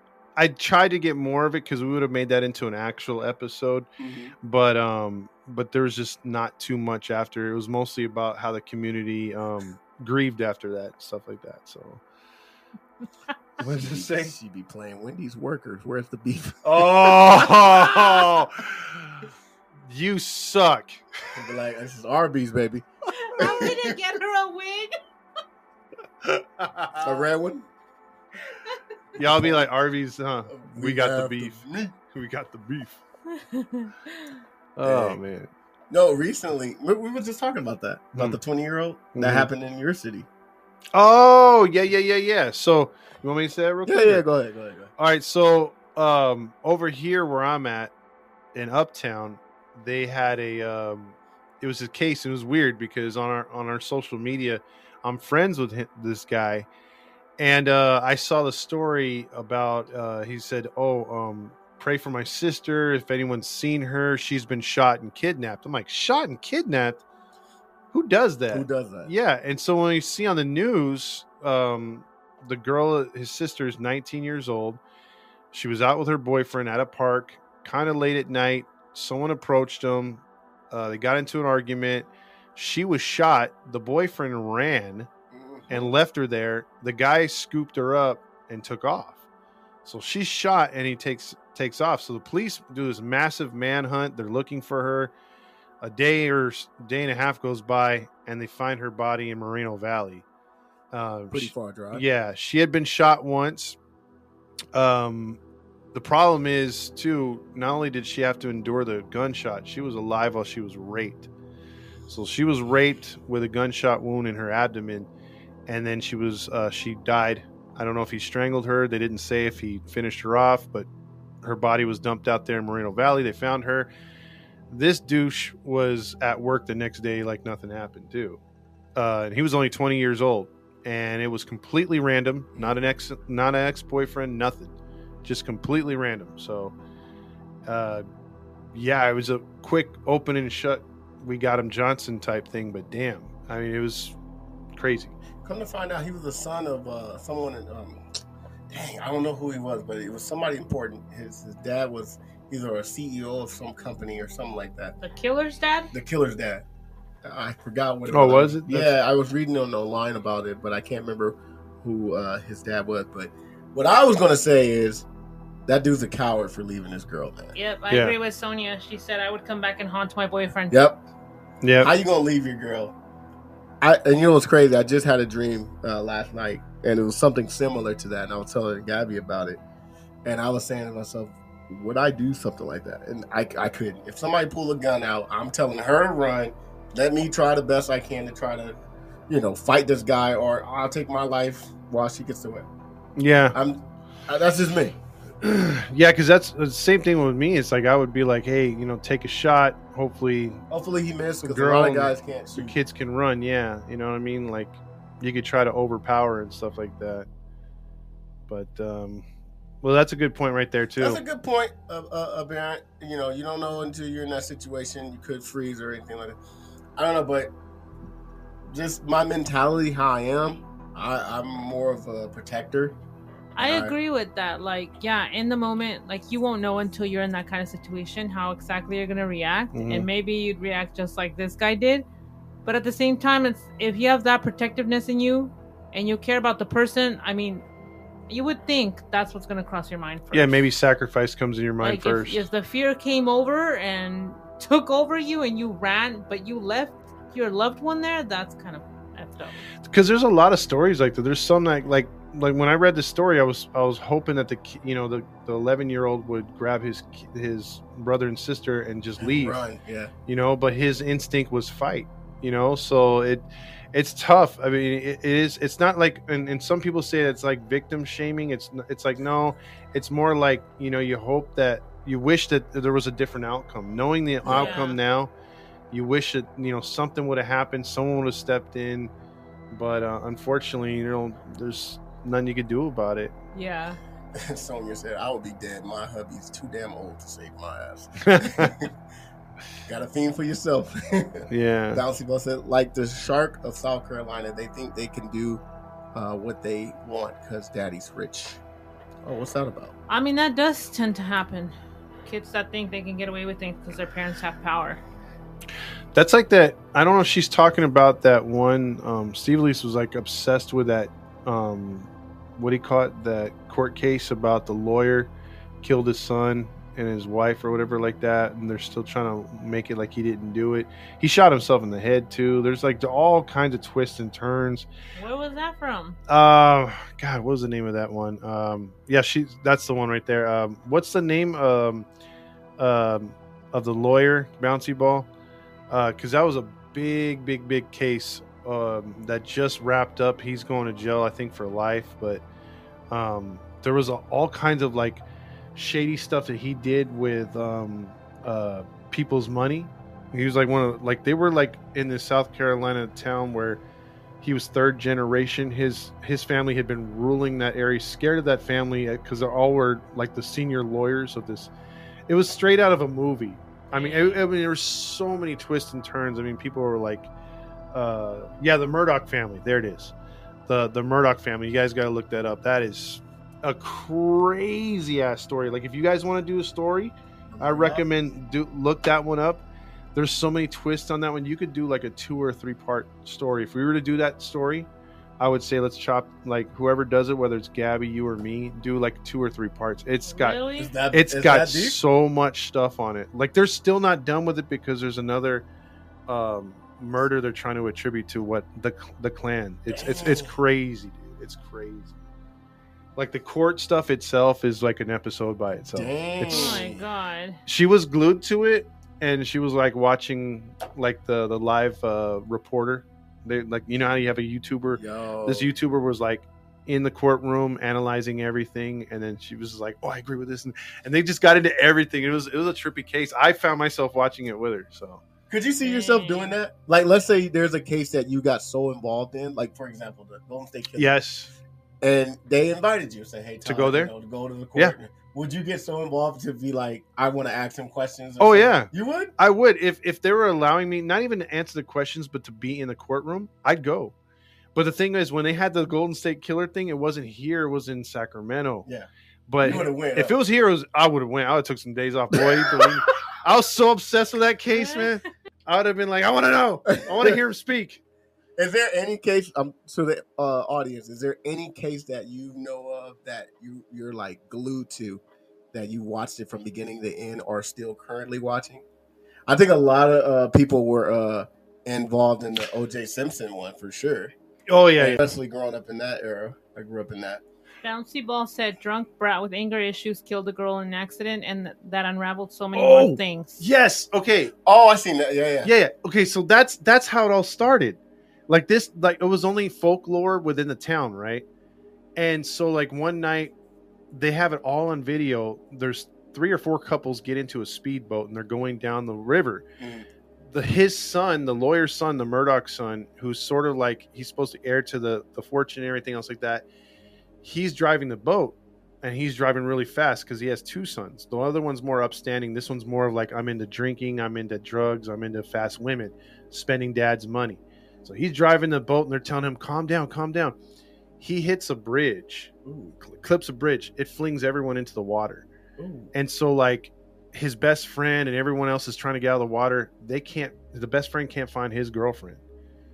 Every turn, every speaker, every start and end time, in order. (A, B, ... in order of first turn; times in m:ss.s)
0:00.4-0:03.9 A
0:04.0-0:04.3 B
0:04.4-0:12.0 A
0:13.6-0:14.3 A
0:13.6-0:18.0 B
0:16.6-0:19.3 A
0:19.9-0:21.0 A
0:21.3-0:22.9 B
0:23.2-0:25.0 C
0:23.4-0:24.0 B
0:26.2-0:27.0 A
0:27.0-0:27.7 B
0:28.5-0:28.8 C
0:29.2-0:29.6 B
0:29.2-0:33.0 A
0:30.5-0:31.9 B
0:33.3-0:34.4 C
0:34.8-0:35.5 A
0:34.8-0:35.2 B
0:35.9-0:40.3 B
0:38.1-0:38.4 A
0:39.1-0:39.5 A
0:40.9-0:44.2 A
0:43.8-0:44.9 B
0:45.0-0:47.9 A
0:48.5-0:56.7 A
0:57.4-1:07.0 A
1:07.9-1:14.8 A
1:08.5-1:09.1 B
1:15.5-1:25.1 A
1:25.3-1:26.0 B
1:25.7-1:29.2 A
1:29.8-1:35.1 A
1:35.8-1:40.2 A
1:40.9-1:43.8 A
1:41.3-1:42.0 B
1:44.7-1:45.4 A
1:45.9-1:51.3 A
1:52.1-1:55.1 A
1:55.7-2:00.9 A
2:01.4-2:03.9 A
2:04.7-2:08.4 A
2:09.0-2:14.7 A
2:15.2-2:16.8 A
2:17.7-2:18.0 A
2:18.7-2:24.2 A
2:24.8-2:25.1 A
2:25.4-2:28.0 B
2:28.7-2:35.0 B
2:35.0-2:35.9 C
2:35.9-2:36.6 B
2:37.2-2:45.1 B
2:38.1-2:38.9 A
2:45.7-2:47.5 B
2:47.6-2:50.8 C
2:50.7-2:51.0 B
2:51.6-2:51.9 A
2:51.8-2:52.9 B
2:53.8-2:59.6 B
3:00.2-3:08.8 B
3:09.3-3:12.7 B
3:13.2-3:13.6 A
3:13.5-3:15.0 B
3:15.4-3:20.6 A
3:20.7-3:22.8 B
3:21.4-3:27.3 A
3:28.5-3:29.2 A
3:29.8-3:31.2 A
3:31.0-3:36.4 B
3:37.0-3:37.5 B
3:38.7-3:43.0 B
3:43.6-3:52.0 C
3:43.6-3:43.9 B
3:49.7-3:50.1 A
3:52.6-3:57.6 C
3:58.3-4:00.6 C
4:00.3-4:02.4 A
4:01.8-4:09.6 C
4:09.8-4:19.6 A
4:19.2-4:20.1 B
4:20.3-4:35.3 A
4:34.4-4:34.8 B
4:34.5-4:35.0 C
4:35.9-4:39.1 A
4:39.7-4:43.3 A
4:43.5-4:44.0 C
4:44.3-4:48.9 B
4:48.2-4:48.7 A
4:49.8-4:55.6 B
4:51.5-4:52.0 A
4:56.1-4:58.6 B
4:59.2-4:59.9 B
5:00.1-5:05.0 C
5:06.1-5:15.3 A
5:15.8-5:24.9 A
5:25.2-5:26.2 C
5:26.3-5:32.1 A
5:32.8-5:35.3 A
5:35.9-5:42.4 A
5:43.1-5:45.2 A
5:45.7-5:53.8 A
5:54.4-6:01.7 A
6:02.3-6:07.3 A
6:03.9-6:04.4 C
6:07.9-6:10.1 A
6:10.7-6:19.6 A
6:17.5-6:18.0 B
6:20.1-6:24.9 A
6:25.4-6:30.6 A
6:30.2-6:30.9 C
6:30.8-6:32.0 B
6:31.1-6:35.6 A
6:36.3-6:42.2 A
6:39.9-6:40.5 B
6:43.2-6:46.8 A
6:45.9-6:47.0 B
6:46.5-6:47.6 C
6:47.6-7:05.2 A
6:54.9-6:55.7 B
7:05.5-7:11.1 B
7:05.8-7:06.5 C
7:11.0-7:11.5 A
7:12.0-7:19.3 B
7:13.6-7:14.1 A
7:18.4-7:24.1 A
7:24.7-7:28.8 A
7:29.5-7:38.0 A
7:29.6-7:30.4 B
7:32.3-7:33.0 B
7:34.7-7:35.2 C
7:36.9-7:37.4 B
7:38.6-7:45.2 B
7:45.7-7:48.8 B
7:49.5-7:54.3 B
7:54.7-7:55.2 A
7:55.0-7:57.4 B
7:57.8-8:03.6 C
8:02.7-8:04.5 A
8:04.6-8:05.7 B
8:05.6-8:11.4 A
8:12.2-8:13.5 A
8:14.1-8:19.6 A
8:19.8-8:20.1 B
8:20.5-8:26.6 A
8:27.4-8:40.6 A
8:41.2-8:45.5 A
8:42.6-8:43.0 B
8:45.8-8:46.1 B
8:46.1-8:52.4 A